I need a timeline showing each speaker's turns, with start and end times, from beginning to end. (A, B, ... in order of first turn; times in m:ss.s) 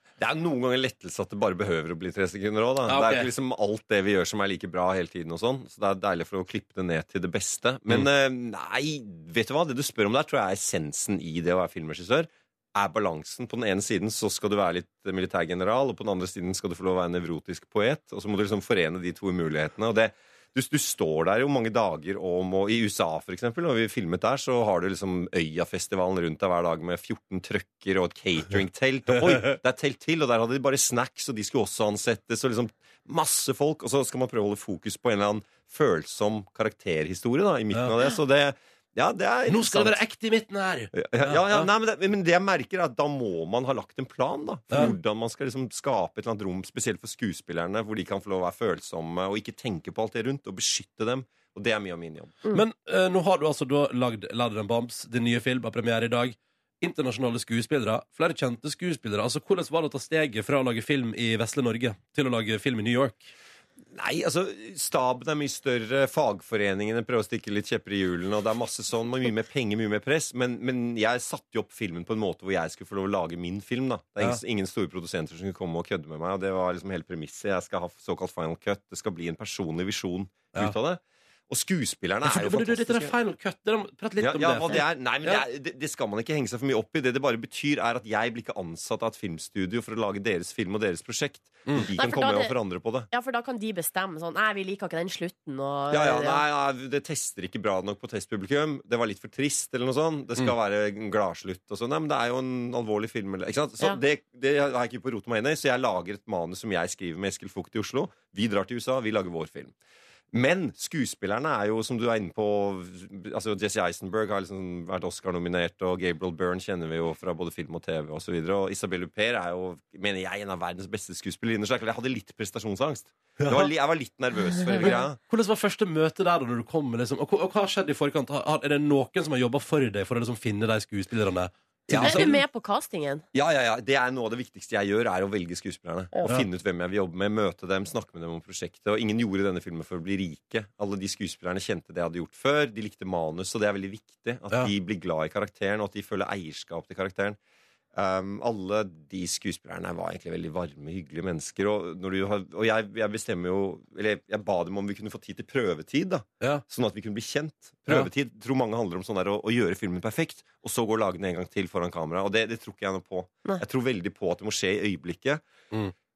0:00.2-0:40.0 A
0:02.9-0:03.3 B
0:39.5-0:41.7 B
0:40.9-0:52.4 A
0:44.7-0:45.0 B
0:52.5-1:03.3 B
1:04.0-1:23.1 A
1:22.2-1:25.4 B
1:24.2-1:33.1 A
1:32.0-1:32.6 C
1:33.1-1:36.4 C
1:35.9-1:49.8 A
1:50.3-2:05.2 A
2:03.4-2:03.7 B
2:05.3-2:12.4 B
2:11.9-2:12.4 A
2:12.0-2:13.2 C
2:13.3-2:27.4 A
2:28.0-2:45.4 A